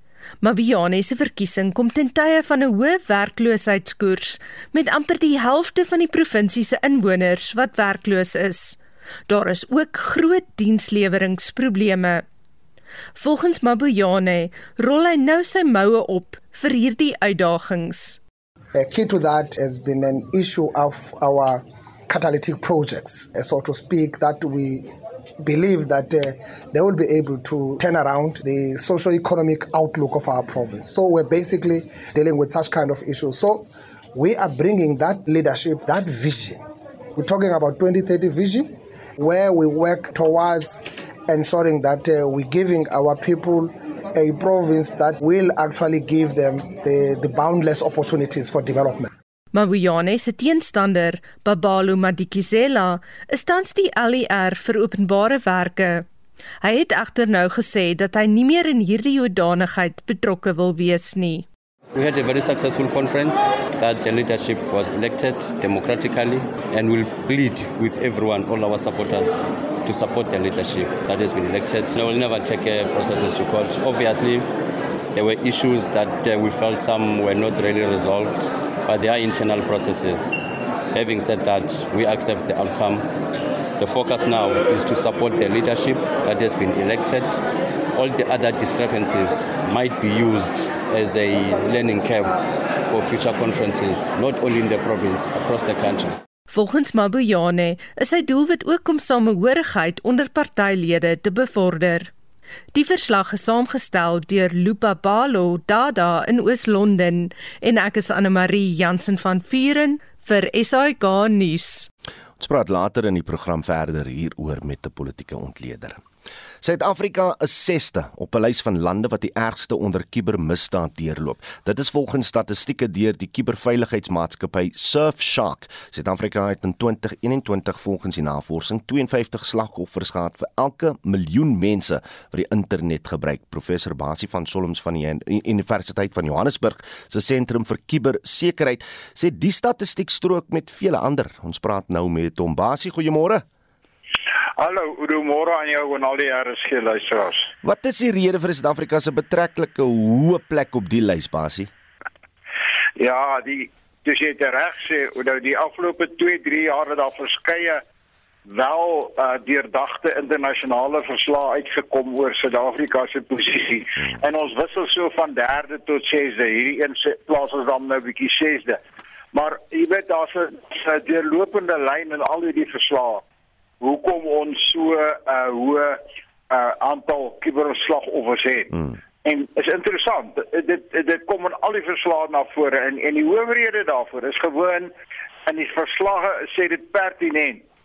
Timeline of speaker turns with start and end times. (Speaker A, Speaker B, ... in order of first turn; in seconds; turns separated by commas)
Speaker A: 0.4-8.8, Speaker A: 9.3-12.2, Speaker A: 13.2-18.2, Speaker B: 18.8-24.9, Speaker B: 25.4-36.6, Speaker B: 37.2-49.1, Speaker A: 49.5-56.1, Speaker A: 56.6-61.5, Speaker C: 61.9-74.5, Speaker C: 75.1-80.3, Speaker C: 80.9-83.0, Speaker C: 83.8-87.4, Speaker C: 87.9-96.2, Speaker A: 96.5-102.1, Speaker A: 102.7-111.9, Speaker D: 112.4-116.0, Speaker D: 116.6-143.4, Speaker E: 144.6-147.5, Speaker D: 147.6-151.7, Speaker E: 153.0-157.8, Speaker E: 158.5-168.8, Speaker E: 169.3-173.2, Speaker E: 173.8-184.9, Speaker E: 185.5-187.6